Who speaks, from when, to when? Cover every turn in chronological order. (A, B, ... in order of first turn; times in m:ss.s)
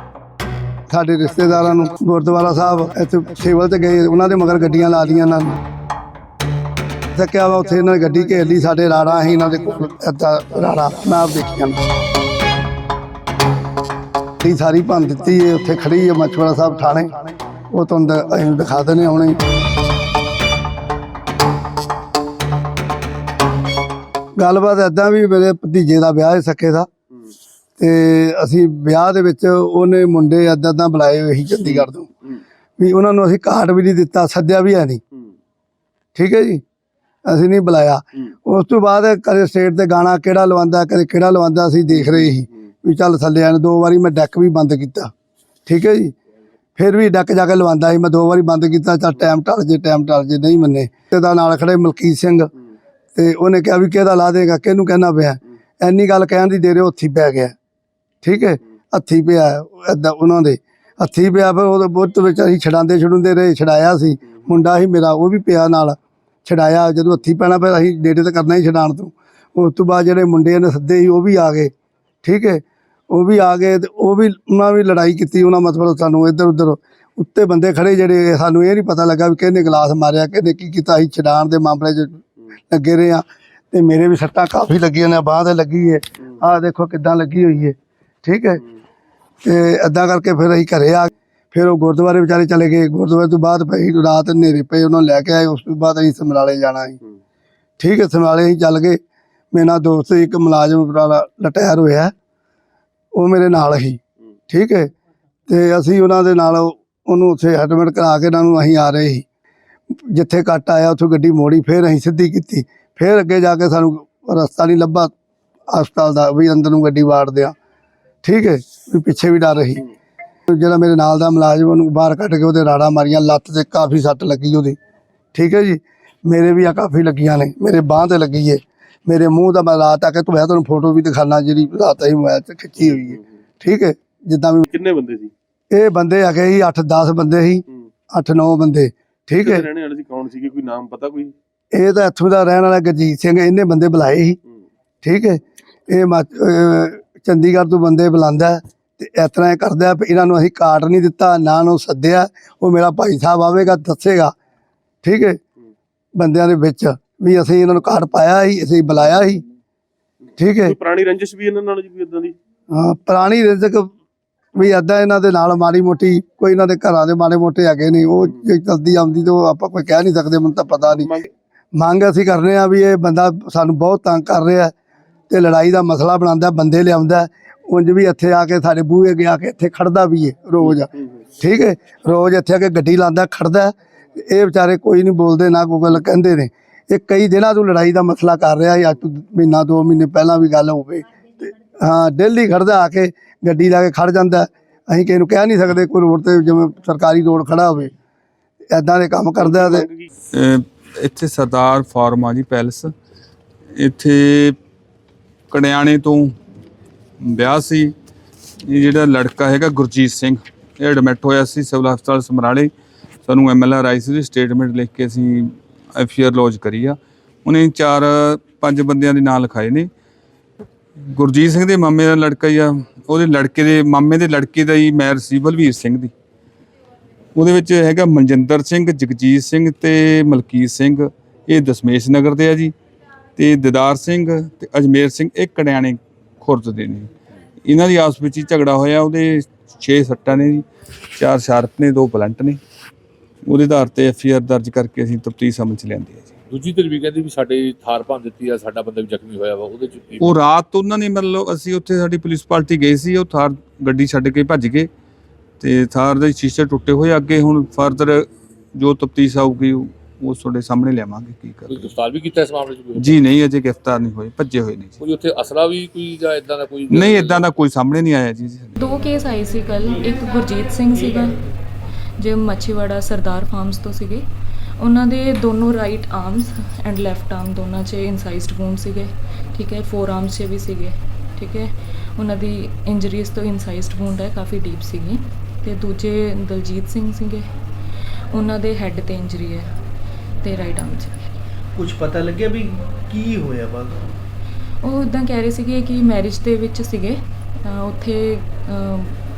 0:00.9-0:05.6 A
0:07.1-0:11.8 A
0:14.4-0:17.1 A
0:17.7-0:19.4 A
0:24.4-0:26.9 A
0:27.8-0:32.1 A
0:32.8-0:35.0 A
0:36.1-0:36.6 A
0:37.3-0:45.1 A
0:45.7-0:46.2 A
0:46.8-0:52.5 A
0:53.1-0:57.5 A
0:58.2-1:11.7 A
1:12.2-1:28.6 A
1:29.4-1:37.0 A
1:37.8-1:39.0 A
1:39.5-1:42.1 A
1:43.1-1:44.9 A
1:45.5-1:49.2 A
1:50.1-1:55.1 A
1:55.7-1:57.5 A
1:58.2-1:59.8 A
2:00.5-2:04.8 A
2:05.3-2:14.6 A
2:14.7-2:15.3 B
2:15.7-2:19.6 A
2:19.4-2:21.3 B
2:21.7-2:24.4 A
2:25.0-2:34.3 A
2:35.0-2:35.4 A
2:36.2-2:39.4 A
2:40.4-2:40.7 A
2:40.6-2:42.3 B
2:42.7-2:43.9 A
2:44.5-2:51.1 A
2:50.9-2:51.2 B
2:51.7-2:54.7 A
2:55.3-3:17.9 A
3:00.7-3:01.1 B
3:18.7-3:19.8 A
3:19.4-3:20.1 B
3:20.3-3:22.9 C
3:23.8-3:24.6 C
3:25.5-3:26.3 C
3:27.2-3:27.9 C
3:28.7-3:32.7 C
3:33.2-3:39.9 C
3:41.1-3:46.1 C
3:47.4-3:52.7 C
3:53.4-3:57.1 C
3:57.6-4:00.6 C
4:01.2-4:02.6 C
4:03.4-4:06.2 C
4:06.5-4:10.4 D
4:10.2-4:14.9 C
4:15.6-4:21.9 C
4:21.7-4:23.2 D
4:22.9-4:24.9 C
4:25.0-4:27.4 D
4:26.9-4:28.8 C
4:28.8-4:31.4 E
4:32.2-4:34.2 E
4:34.8-4:47.4 E
4:48.3-4:49.7 E
4:50.4-4:51.3 E
4:51.7-4:54.1 F
4:54.8-4:59.2 E